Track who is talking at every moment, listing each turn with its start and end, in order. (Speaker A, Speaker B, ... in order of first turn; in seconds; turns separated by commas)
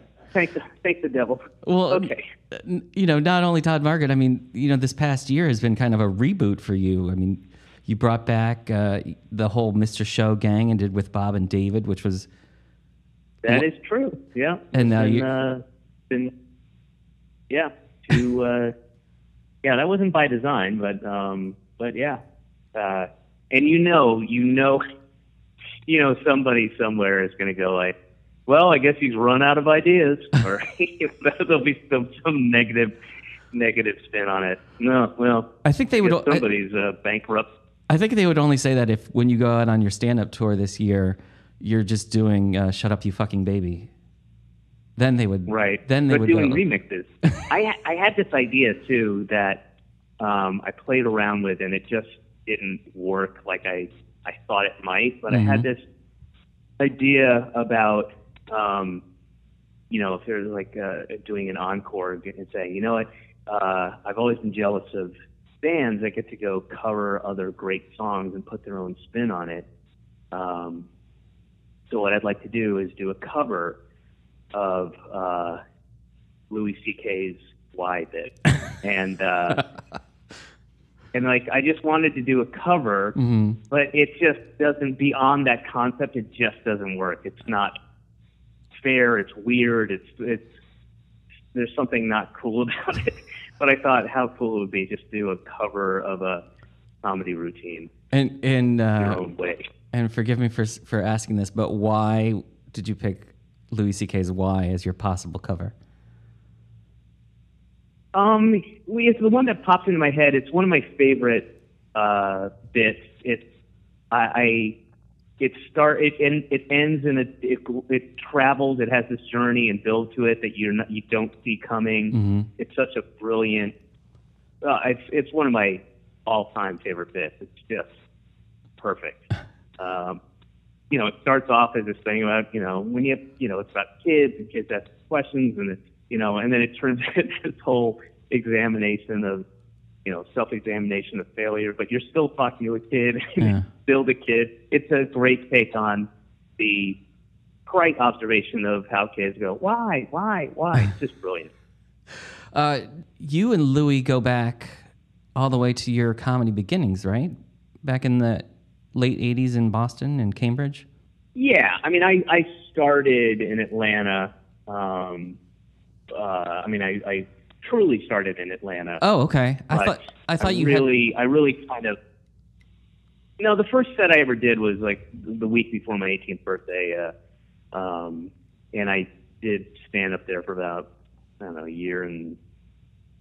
Speaker A: 0.3-2.3, Speaker B: 1.6-12.3, Speaker A: 13.4-16.3, Speaker B: 14.7-15.3, Speaker A: 17.5-18.7, Speaker A: 19.6-22.2, Speaker A: 22.7-24.8, Speaker A: 25.9-27.9, Speaker A: 28.5-32.9, Speaker A: 33.5-37.5, Speaker B: 35.6-36.5, Speaker B: 37.9-43.9, Speaker B: 45.0-46.6, Speaker A: 45.5-49.6, Speaker A: 50.2-55.8, Speaker B: 55.3-55.7, Speaker A: 56.8-59.0, Speaker A: 59.9-69.7, Speaker A: 70.3-70.9, Speaker A: 71.9-73.8, Speaker A: 74.5-75.6, Speaker A: 76.5-79.7, Speaker A: 81.1-83.2, Speaker B: 83.2-83.6, Speaker A: 83.7-87.7, Speaker A: 88.7-90.5, Speaker A: 91.5-96.4, Speaker A: 97.0-97.9, Speaker B: 98.1-99.2, Speaker A: 99.0-99.6, Speaker B: 99.9-105.7, Speaker A: 108.1-113.5, Speaker A: 114.1-114.8, Speaker A: 115.4-123.7, Speaker B: 122.1-122.5, Speaker A: 124.6-127.9, Speaker A: 128.8-130.2, Speaker A: 130.9-139.4, Speaker A: 140.1-147.0, Speaker B: 143.4-143.7, Speaker A: 147.7-151.5, Speaker B: 152.5-154.8, Speaker B: 155.4-160.8, Speaker A: 161.3-165.4, Speaker A: 166.1-169.0, Speaker B: 169.0-170.8, Speaker A: 169.7-172.0, Speaker A: 173.4-177.1, Speaker A: 177.7-180.9, Speaker A: 181.4-182.4